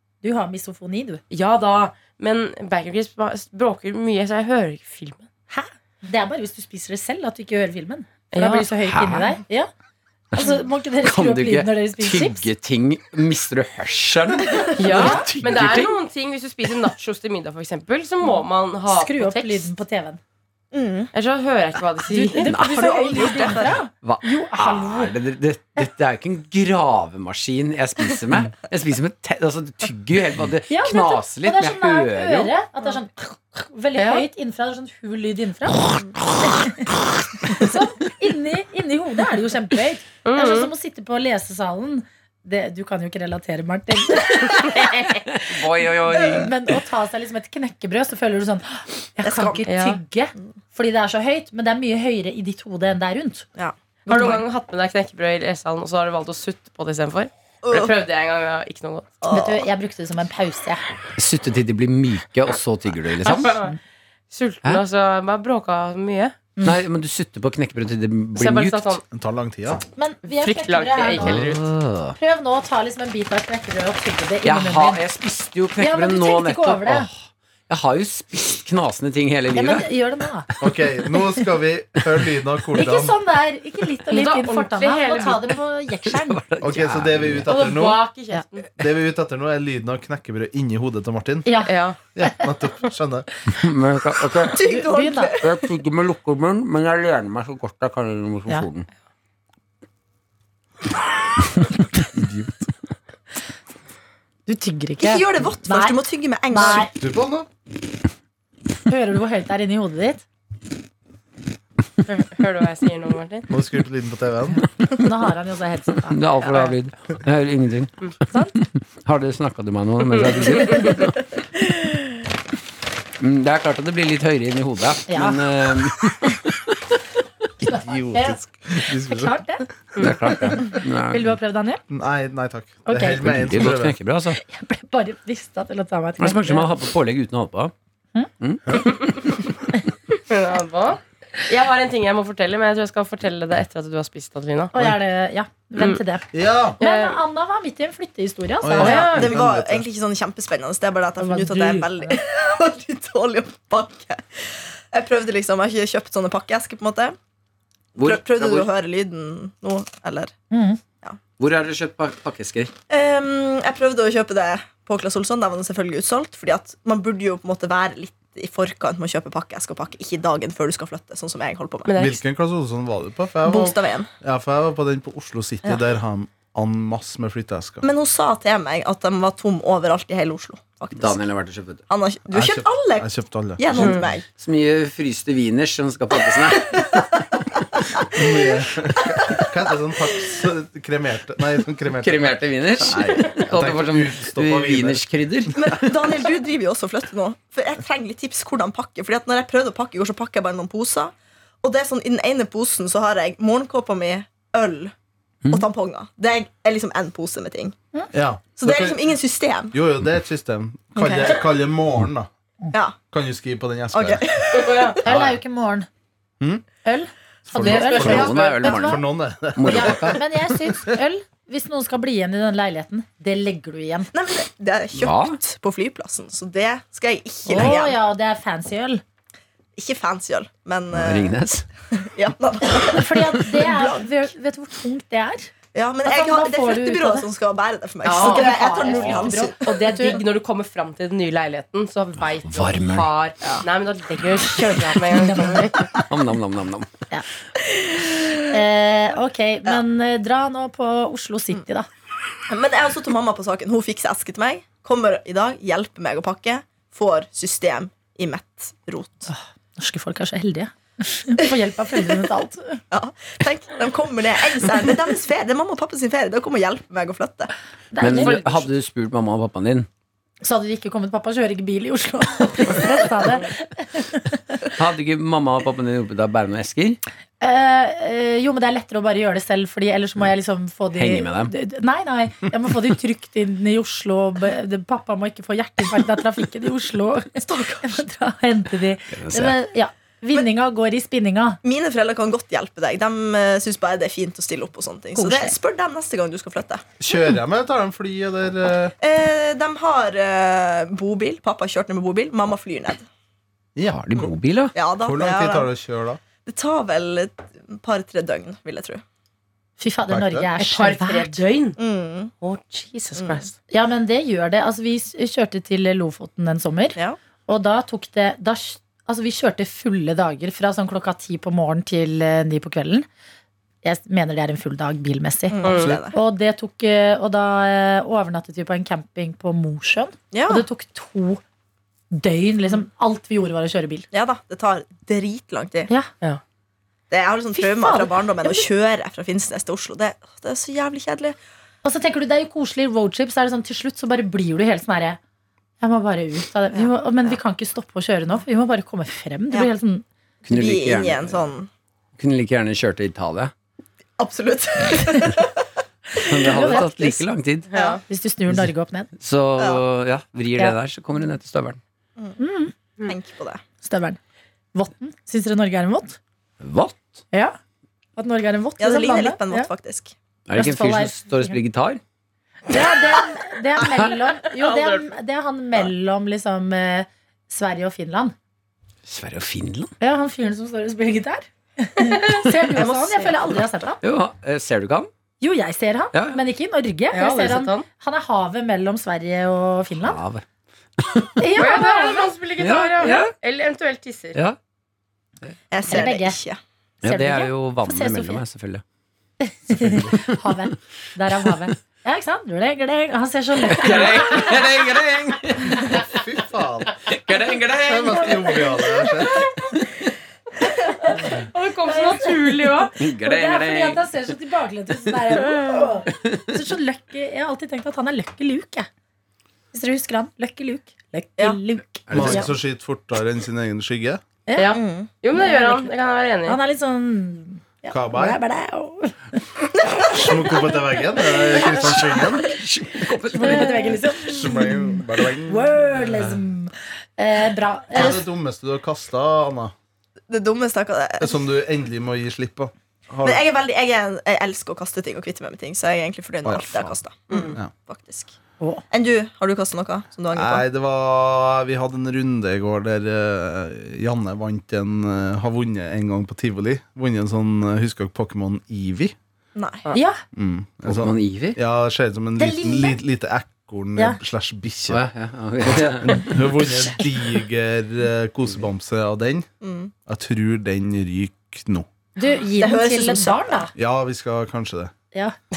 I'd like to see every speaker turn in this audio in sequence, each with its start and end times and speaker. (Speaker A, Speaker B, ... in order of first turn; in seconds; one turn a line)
Speaker A: 0.2-1.2
Speaker B: 1.3-5.3
Speaker A: 5.5-9.7
Speaker B: 8.3-8.7
Speaker C: 8.8-9.4
Speaker A: 10.3-12.5
Speaker C: 10.3-16.0
Speaker B: 14.8-19.7
Speaker A: 14.9-15.3
Speaker A: 18.9-20.2
Speaker D: 20.7-21.1
Speaker B: 21.1-22.5
Speaker A: 22.1-25.1
Speaker C: 22.4-22.9
Speaker D: 22.6-23.8
Speaker C: 23.9-32.5
Speaker A: 30.7-45.1
Speaker B: 34.0-34.2
Speaker B: 40.2-40.7
Speaker C: 44.8-46.5
Speaker A: 46.2-53.5
Speaker D: 49.2-49.7
Speaker B: 49.7-50.0
Speaker D: 53.6-54.4
Speaker B: 54.1-59.2
Speaker D: 57.6-57.9
Speaker D: 59.2-59.7
Speaker A: 59.3-60.8
Speaker C: 61.2-63.6
Speaker B: 63.2-63.7
Speaker A: 63.3-63.8
Speaker B: 64.3-66.4
Speaker C: 66.6-69.0
Speaker B: 68.4-69.0
Speaker E: 69.1-69.8
Speaker A: 70.0-71.5
Speaker B: 70.3-71.6
Speaker C: 71.2-72.2
Speaker A: 72.2-75.0
Speaker C: 74.4-79.9
Speaker A: 75.8-77.1
Speaker A: 79.5-80.5
Speaker E: 80.6-83.2
Speaker A: 82.7-86.4
Speaker B: 84.1-85.5
Speaker C: 86.1-87.5
Speaker E: 86.6-88.0
Speaker B: 87.5-88.7
Speaker E: 88.8-91.6
Speaker A: 91.5-92.4
Speaker B: 91.7-92.0
Speaker E: 92.1-93.3
Speaker C: 93.5-94.6
Speaker D: 94.5-95.6
Speaker A: 94.5-95.4
Speaker C: 95.4-98.9
Speaker E: 102.1-102.7
Speaker A: 104.5-106.9
Speaker D: 105.0-106.9
Speaker E: 106.9-107.5
Speaker A: 108.9-110.2
Speaker B: 112.1-113.5
Speaker E: 113.5-114.6
Speaker A: 114.9-116.7
Speaker C: 116.1-121.2
Speaker A: 118.3-118.5
Speaker B: 120.1-121.0
Speaker C: 123.2-126.7
Speaker A: 125.1-125.4
Speaker A: 127.6-129.7
Speaker E: 127.7-129.4
Speaker C: 130.0-131.4
Speaker A: 130.3-131.8
Speaker E: 131.9-134.0
Speaker A: 132.9-133.2
Speaker C: 133.2-134.4
Speaker A: 134.3-136.7
Speaker C: 136.2-137.7
Speaker A: 138.2-138.9
Speaker C: 138.4-139.2
Speaker B: 140.3-144.7
Speaker A: 144.7-149.1
Speaker E: 146.3-146.8
Speaker B: 146.8-147.2
Speaker E: 148.6-149.9
Speaker B: 148.8-149.3
Speaker D: 148.8-157.2
Speaker A: 151.2-152.2
Speaker C: 158.0-158.7
Speaker D: 158.0-160.3
Speaker A: 160.5-160.8
Speaker C: 161.4-162.7
Speaker D: 162.9-171.9
Speaker B: 171.9-172.2
Speaker E: 172.0-177.9
Speaker D: 173.5-174.1
Speaker D: 177.8-181.3
Speaker C: 180.9-181.8
Speaker D: 181.9-184.3
Speaker E: 182.3-184.1
Speaker B: 183.8-184.0
Speaker C: 184.4-187.0
Speaker E: 188.1-195.0
Speaker D: 188.1-188.5
Speaker D: 189.1-189.4
Speaker C: 192.0-196.1
Speaker D: 195.5-204.9
Speaker D: 205.5-207.8
Speaker E: 208.1-209.1
Speaker D: 208.6-209.8
Speaker E: 209.7-212.3
Speaker D: 211.0-211.4
Speaker E: 213.1-214.2
Speaker D: 213.9-215.0
Speaker B: 214.5-215.0
Speaker A: 215.0-215.9
Speaker E: 215.1-215.4
Speaker E: 216.4-216.7
Speaker A: 216.8-219.0
Speaker E: 217.5-220.9
Speaker C: 217.7-219.0
Speaker B: 218.0-218.6
Speaker C: 219.6-220.2
Speaker A: 219.7-224.1
Speaker D: 224.1-228.0
Speaker C: 225.0-225.4
Speaker A: 227.5-229.0
Speaker D: 229.8-231.4
Speaker C: 230.9-231.7
Speaker D: 231.9-234.1
Speaker A: 232.6-235.5
Speaker D: 235.7-240.2
Speaker A: 236.0-237.3
Speaker B: 238.0-238.9
Speaker A: 238.0-240.2
Speaker B: 239.7-245.9
Speaker C: 242.4-243.1
Speaker A: 245.1-245.8
Speaker C: 246.1-246.9
Speaker D: 247.6-248.5
Speaker A: 248.5-251.9
Speaker D: 252.5-259.3
Speaker A: 259.3-262.8
Speaker D: 262.9-267.5
Speaker A: 267.9-268.7
Speaker C: 268.0-269.9
Speaker A: 270.4-274.6
Speaker C: 274.8-277.0
Speaker A: 277.4-291.6
Speaker C: 280.9-281.5
Speaker D: 287.4-288.0
Speaker C: 289.1-289.6
Speaker D: 291.6-296.9
Speaker A: 295.1-295.6
Speaker E: 297.0-298.9
Speaker D: 299.0-303.1
Speaker E: 303.8-304.3
Speaker C: 303.8-304.7
Speaker D: 304.7-305.7
Speaker E: 305.0-306.2
Speaker D: 306.4-309.0
Speaker A: 309.8-311.4
Speaker E: 310.1-310.5
Speaker B: 310.6-311.8
Speaker D: 311.8-312.3
Speaker B: 312.4-313.5
Speaker D: 313.2-313.4
Speaker A: 313.7-323.1
Speaker A: 323.8-331.4
Speaker D: 325.5-326.2
Speaker B: 325.6-326.0
Speaker E: 325.7-326.0
Speaker D: 330.3-330.7
Speaker A: 332.1-334.1
Speaker D: 334.1-335.9
Speaker D: 337.1-341.4
Speaker A: 337.5-338.7
Speaker A: 341.8-345.2
Speaker A: 345.8-350.0
Speaker D: 346.7-347.4
Speaker C: 350.5-351.5
Speaker D: 350.5-351.7
Speaker C: 352.2-353.5
Speaker D: 354.2-355.6
Speaker A: 356.2-357.3
Speaker C: 356.3-357.7
Speaker D: 356.3-356.7
Speaker B: 357.7-358.0
Speaker D: 357.7-358.0
Speaker A: 358.1-359.1
Speaker C: 359.2-361.8
Speaker A: 362.4-362.7
Speaker D: 363.0-363.6
Speaker A: 363.8-364.2
Speaker A: 364.7-366.2
Speaker C: 366.6-367.0
Speaker A: 368.2-369.7
Speaker D: 368.8-370.1
Speaker C: 370.5-372.0
Speaker A: 370.5-371.6
Speaker A: 372.7-378.4
Speaker B: 374.5-375.1
Speaker C: 379.1-379.9
Speaker A: 380.0-384.0
Speaker B: 382.0-383.3
Speaker C: 384.0-385.1
Speaker A: 385.4-390.2
Speaker C: 386.1-386.4
Speaker B: 387.1-387.9
Speaker C: 390.0-390.4
Speaker C: 391.0-391.4
Speaker A: 391.4-392.4
Speaker B: 391.6-394.4
Speaker C: 392.6-393.3
Speaker D: 395.7-396.6
Speaker A: 395.9-396.4
Speaker A: 397.0-398.4
Speaker C: 397.0-398.8
Speaker A: 399.4-404.6
Speaker E: 399.7-400.2
Speaker C: 403.6-406.2
Speaker E: 405.9-407.1
Speaker C: 407.0-408.6
Speaker E: 407.8-409.5
Speaker A: 408.2-409.1
Speaker A: 410.6-418.9
Speaker B: 411.1-412.9
Speaker C: 413.0-414.1
Speaker C: 415.1-415.5
Speaker C: 416.1-416.6
Speaker A: 419.7-422.5
Speaker C: 422.1-422.5
Speaker E: 422.1-424.2
Speaker A: 424.5-424.8
Speaker B: 424.6-426.6
Speaker D: 424.7-425.1
Speaker A: 425.3-425.9
Speaker A: 426.5-429.4
Speaker E: 427.9-428.4
Speaker D: 429.8-430.6
Speaker E: 430.1-432.5
Speaker C: 431.7-434.1
Speaker A: 433.3-438.2
Speaker E: 434.2-435.7
Speaker E: 437.9-439.7
Speaker D: 440.3-441.4
Speaker E: 441.2-443.4
Speaker D: 443.2-448.4
Speaker E: 446.4-447.0
Speaker D: 448.9-450.6
Speaker E: 450.3-459.1
Speaker D: 459.6-459.9
Speaker A: 459.9-460.2
Speaker E: 460.3-465.0
Speaker C: 460.9-461.6
Speaker A: 462.4-463.0
Speaker C: 464.9-466.7
Speaker E: 465.6-469.5
Speaker D: 469.6-469.9
Speaker E: 470.1-471.9
Speaker A: 472.2-473.7
Speaker D: 472.6-473.5
Speaker E: 473.8-474.9